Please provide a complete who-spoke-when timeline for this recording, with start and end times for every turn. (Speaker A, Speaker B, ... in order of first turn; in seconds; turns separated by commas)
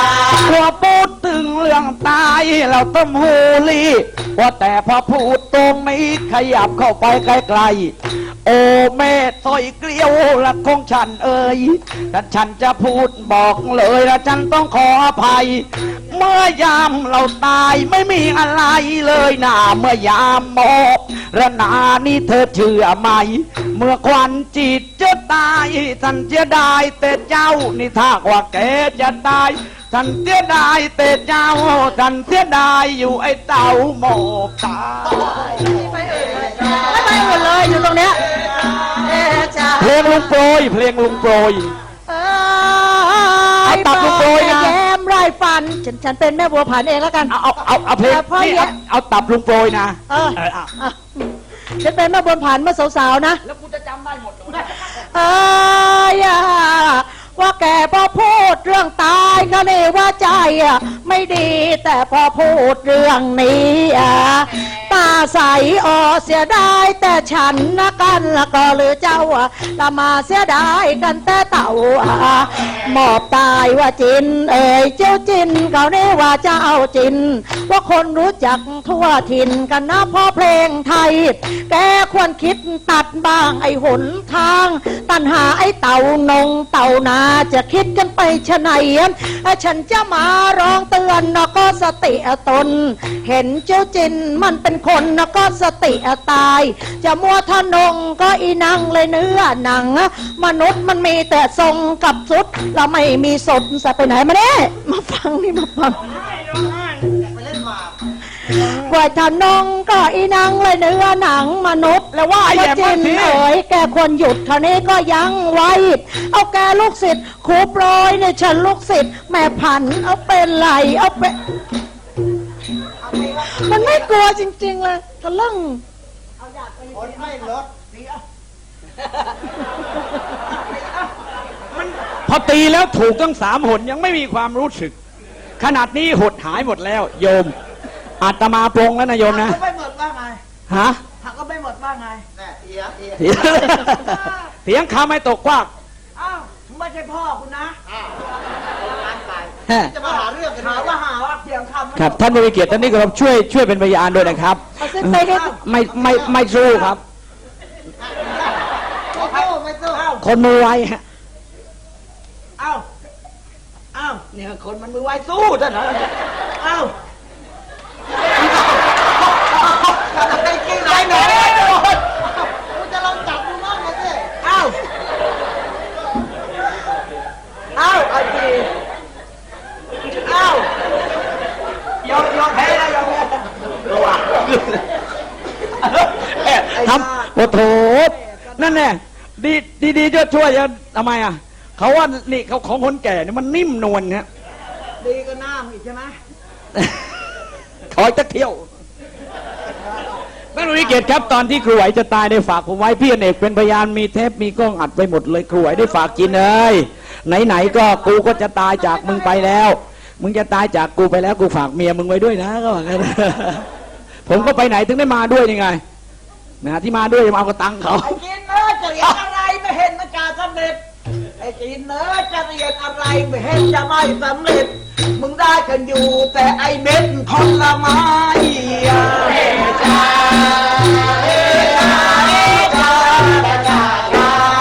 Speaker A: 0.2-7.9, Speaker A: 8.4-35.8, Speaker B: 35.5-38.2, Speaker B: 38.9-40.3, Speaker A: 39.8-41.7, Speaker B: 42.1-47.4, Speaker A: 43.6-44.8, Speaker A: 47.3-50.7, Speaker B: 48.0-48.7, Speaker B: 50.1-51.2, Speaker B: 51.8-53.4, Speaker A: 53.4-54.7, Speaker B: 54.8-106.2, Speaker B: 108.5-121.3, Speaker A: 112.1-113.4, Speaker C: 123.0-124.1, Speaker B: 123.4-125.8, Speaker C: 126.4-128.2, Speaker C: 130.4-131.1, Speaker A: 131.7-134.9, Speaker A: 135.6-137.5, Speaker A: 138.2-139.6, Speaker C: 139.2-140.4, Speaker A: 140.7-141.0, Speaker C: 141.2-142.2, Speaker A: 143.2-145.7, Speaker C: 143.7-144.3, Speaker C: 146.2-147.8, Speaker A: 149.7-149.9, Speaker C: 149.9-152.2, Speaker A: 151.9-157.0, Speaker B: 154.8-155.6, Speaker C: 155.2-156.9, Speaker C: 159.1-160.2, Speaker A: 160.2-161.0, Speaker C: 162.6-162.8, Speaker C: 163.9-164.2, Speaker A: 164.3-166.1, Speaker C: 166.6-166.9, Speaker C: 169.6-174.8, Speaker A: 171.3-171.8, Speaker C: 177.7-178.7, Speaker C: 180.2-180.7, Speaker C: 182.1-183.2, Speaker A: 182.1-183.1, Speaker A: 183.9-184.8, Speaker A: 185.7-194.2, Speaker C: 186.6-188.9, Speaker C: 195.0-196.2, Speaker A: 197.9-198.7, Speaker A: 200.5-213.7, Speaker C: 208.9-209.5, Speaker A: 214.2-215.8, Speaker C: 214.3-214.6, Speaker A: 216.6-218.2, Speaker C: 218.0-220.8, Speaker C: 221.4-229.7, Speaker C: 231.8-234.0